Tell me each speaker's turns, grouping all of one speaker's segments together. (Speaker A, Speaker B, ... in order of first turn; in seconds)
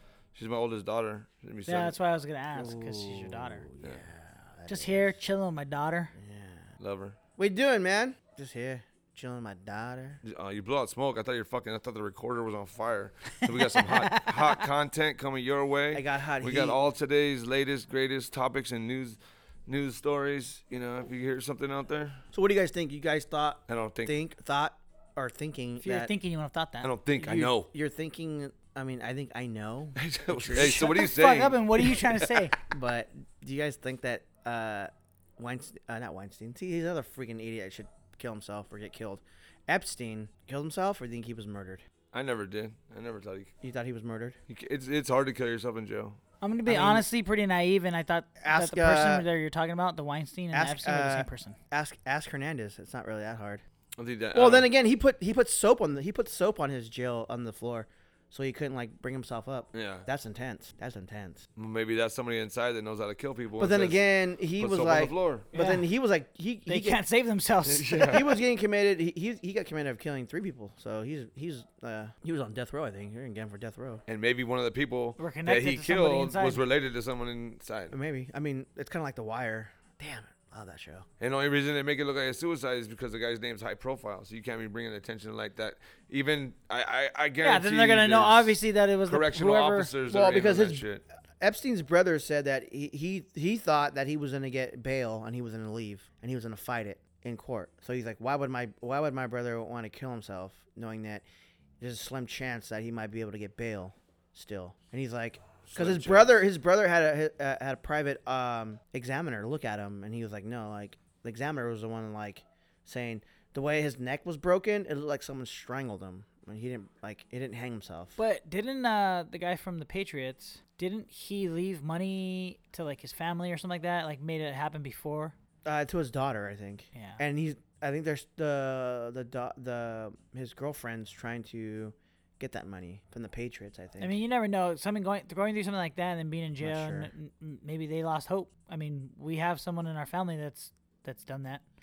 Speaker A: 0.3-1.9, 6.8-7.2, 10.2-22.2, 23.7-24.2, 26.8-27.7, 30.0-32.4, 42.1-43.5, 44.5-46.2, 54.0-54.7, 59.7-60.1, 61.6-64.0, 64.6-65.5, 67.7-68.3, 74.1-77.9, 81.2-91.0, 105.7-106.4
Speaker B: 1.7-3.7, 4.7-6.1, 13.8-14.3, 25.8-26.9, 30.6-32.5, 46.4-51.6, 65.5-65.9, 66.7-68.2, 75.2-76.6, 87.4-89.9, 118.2-125.3, 126.9-127.2, 134.0-141.6
Speaker C: 2.5-5.2, 6.2-6.7, 7.4-10.2, 15.9-16.8, 22.3-26.1, 27.2-30.9, 32.7-41.8, 43.6-44.4, 46.7-47.1, 48.4-49.3, 50.5-53.6, 54.3-61.4, 63.6-67.0, 68.0-74.0, 77.9-81.1, 90.1-90.9, 91.4-101.2, 101.8-118.2, 125.7-134.2, 136.6-137.1